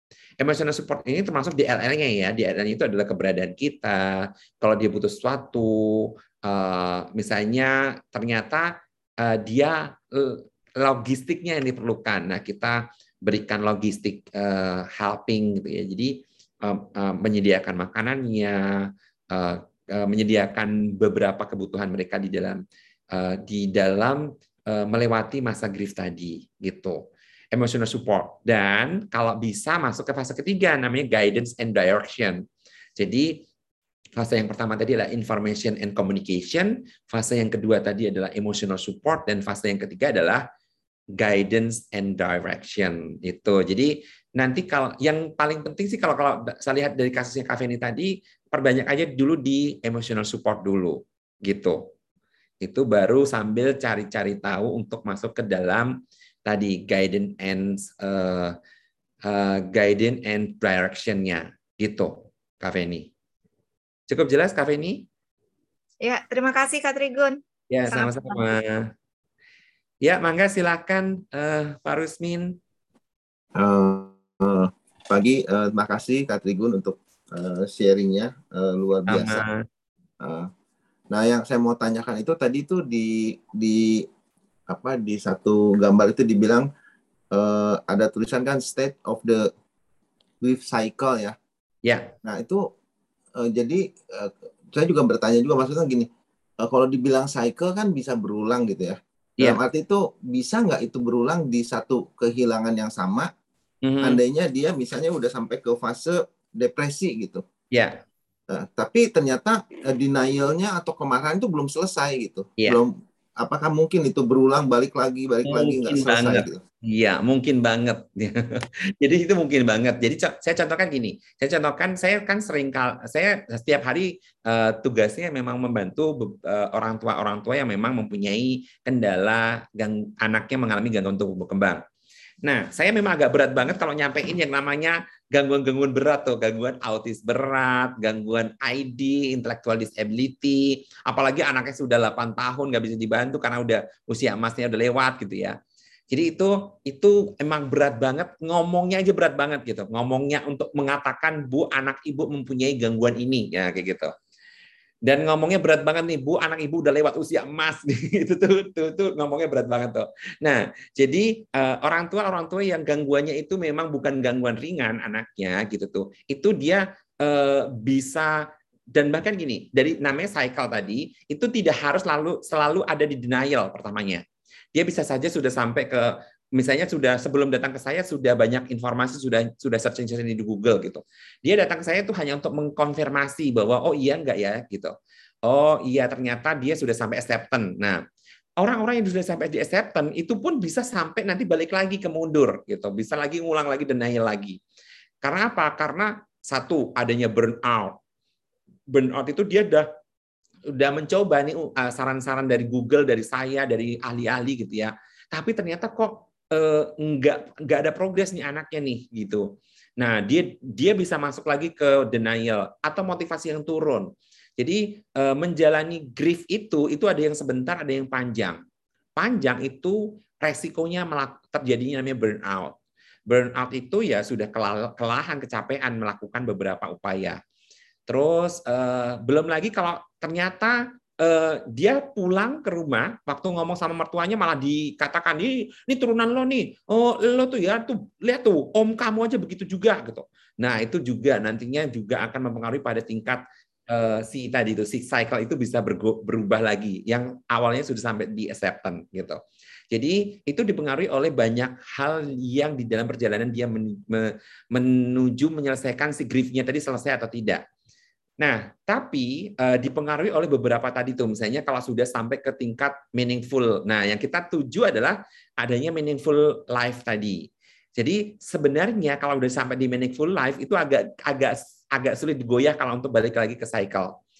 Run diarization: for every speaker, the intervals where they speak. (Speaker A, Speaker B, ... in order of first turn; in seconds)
Speaker A: 0.4-32.4, 33.0-33.4, 34.2-40.4, 41.2-51.9, 52.6-55.9, 56.5-58.6, 59.2-63.1, 64.1-65.0, 67.7-68.9, 70.0-72.6, 79.1-79.7, 91.8-92.1, 103.8-104.2, 107.7-108.0, 115.5-131.8, 132.4-145.6, 146.1-154.1, 155.1-174.2, 174.7-184.9, 185.4-188.0, 188.6-194.6, 195.2-198.0, 198.9-199.9, 200.7-209.4, 210.0-218.6, 219.2-222.7, 223.3-227.4, 228.1-257.6, 258.4-274.2
Speaker B: 66.0-68.5
Speaker C: 73.6-79.4, 80.2-80.5, 81.1-84.1, 84.7-86.7, 87.3-89.5, 90.4-91.3, 92.2-92.7, 93.3-96.1, 96.6-103.3, 104.0-107.4, 108.5-116.6